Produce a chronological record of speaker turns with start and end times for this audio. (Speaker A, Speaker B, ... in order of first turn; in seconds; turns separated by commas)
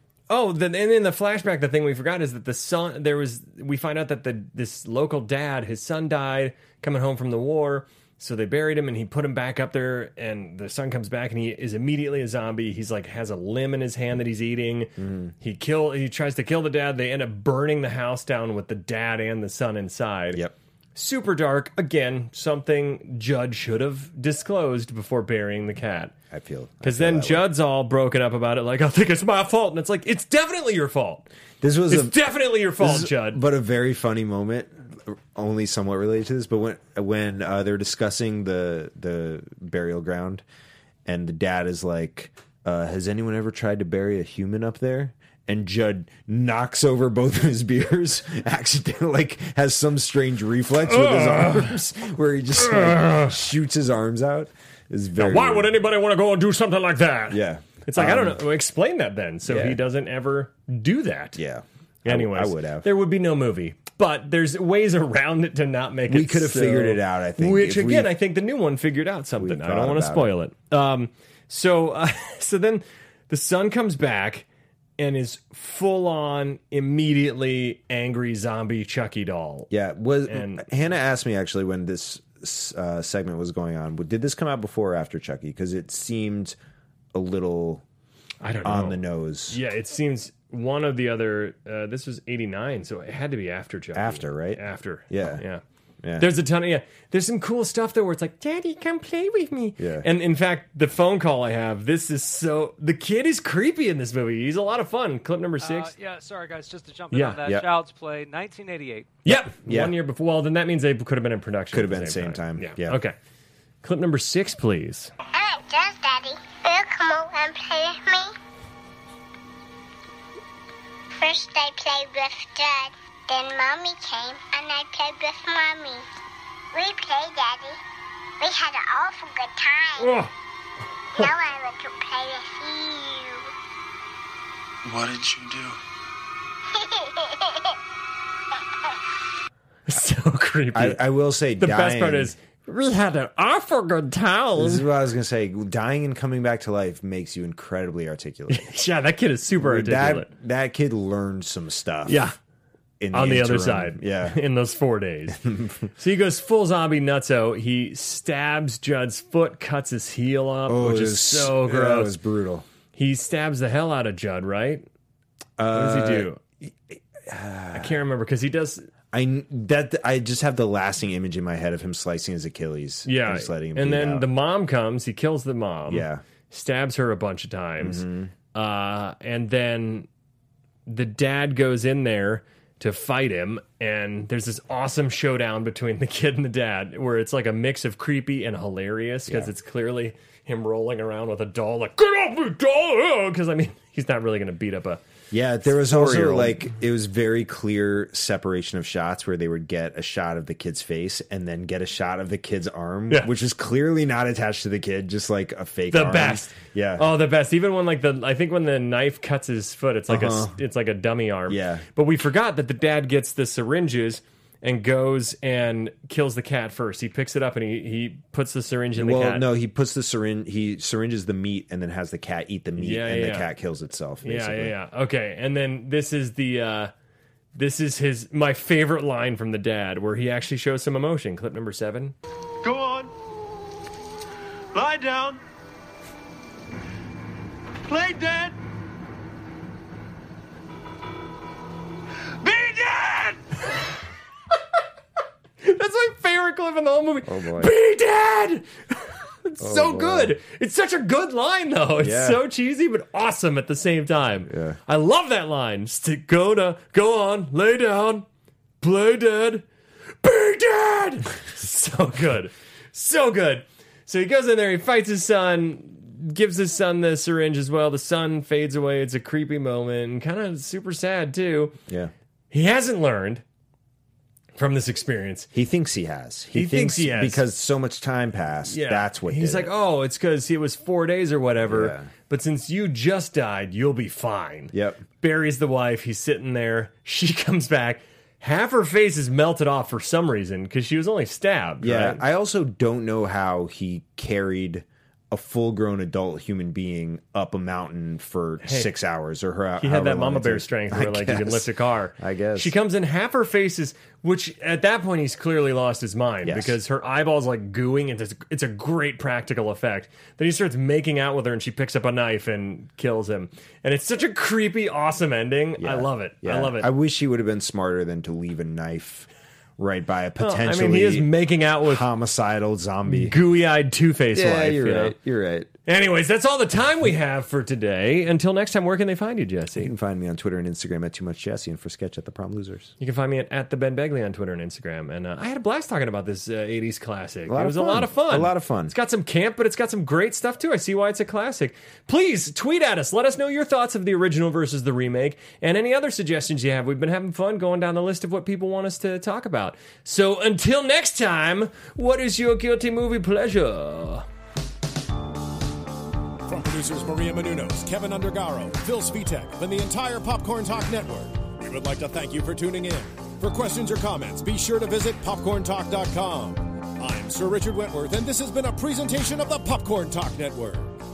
Speaker A: 0.3-20.4, Speaker B: 15.0-15.3, Speaker A: 20.9-26.1, Speaker B: 26.3-27.4, Speaker A: 26.8-31.3, Speaker B: 31.6-40.4, Speaker A: 31.9-33.4, Speaker B: 41.0-55.7, Speaker A: 50.8-51.8, Speaker A: 52.5-53.4, Speaker A: 55.1-61.4, Speaker B: 57.3-58.4, Speaker B: 59.5-59.8, Speaker B: 61.3-62.9, Speaker A: 62.0-74.5, Speaker B: 66.1-68.1, Speaker B: 69.4-70.3, Speaker A: 75.0-79.7, Speaker B: 79.7-86.5, Speaker A: 80.3-80.7, Speaker B: 87.1-87.8, Speaker A: 88.4-95.6, Speaker B: 88.6-89.6, Speaker B: 93.9-95.4, Speaker B: 96.0-96.3, Speaker A: 96.2-105.9, Speaker B: 99.8-100.1, Speaker C: 105.6-109.1, Speaker A: 107.1-107.4, Speaker A: 109.2-113.2, Speaker B: 109.3-109.9, Speaker B: 111.7-113.0, Speaker A: 113.8-115.1, Speaker D: 115.3-118.3, Speaker D: 121.2-126.0, Speaker D: 126.7-127.8, Speaker D: 128.4-130.2, Speaker A: 130.0-130.3, Speaker D: 131.1-133.5, Speaker E: 134.8-135.8, Speaker D: 136.7-137.7, Speaker A: 139.9-141.1, Speaker B: 140.7-142.3, Speaker A: 141.6-144.9, Speaker B: 144.6-148.7, Speaker A: 148.5-150.3, Speaker B: 149.6-152.3, Speaker A: 152.1-152.3, Speaker B: 153.0-154.4, Speaker A: 153.1-155.4, Speaker B: 155.3-155.9, Speaker A: 155.9-162.2, Speaker B: 160.7-162.7, Speaker A: 162.9-164.8, Speaker B: 165.6-168.0, Speaker A: 165.7-166.4, Speaker A: 167.7-168.9, Speaker B: 169.1-174.3, Speaker A: 173.1-180.1, Speaker B: 175.9-176.2, Speaker B: 177.8-178.3, Speaker A: 180.8-195.0, Speaker B: 195.3-207.1, Speaker A: 195.6-196.7, Speaker A: 205.9-219.5, Speaker B: 210.1-210.6, Speaker B: 211.5-211.9, Speaker B: 218.9-224.7, Speaker A: 222.8-223.5, Speaker A: 224.2-226.9, Speaker A: 227.5-232.2, Speaker E: 232.6-233.1, Speaker E: 234.7-235.4, Speaker E: 237.8-238.5, Speaker E: 242.4-243.4, Speaker A: 245.6-258.2, Speaker B: 247.2-247.7, Speaker B: 249.6-250.4, Speaker B: 252.0-252.4, Speaker B: 254.5-254.8, Speaker A: 258.8-259.6, Speaker A: 260.2-271.8, Speaker A: 272.5-273.4, Speaker A: 274.6-275.5, Speaker B: 275.5-279.7, Speaker A: 276.5-277.4, Speaker A: 278.6-292.2, Speaker B: 281.6-282.1, Speaker B: 284.7-285.0, Speaker B: 291.8-302.7, Speaker A: 298.6-298.9, Speaker A: 299.8-316.9, Speaker B: 306.4-306.8, Speaker B: 315.8-321.3, Speaker A: 320.4-322.1, Speaker B: 321.8-323.4, Speaker A: 323.1-325.1, Speaker B: 324.3-325.7, Speaker A: 325.9-329.9, Speaker B: 329.7-332.9, Speaker A: 333.0-354.2, Speaker B: 337.5-338.9, Speaker F: 356.4-370.9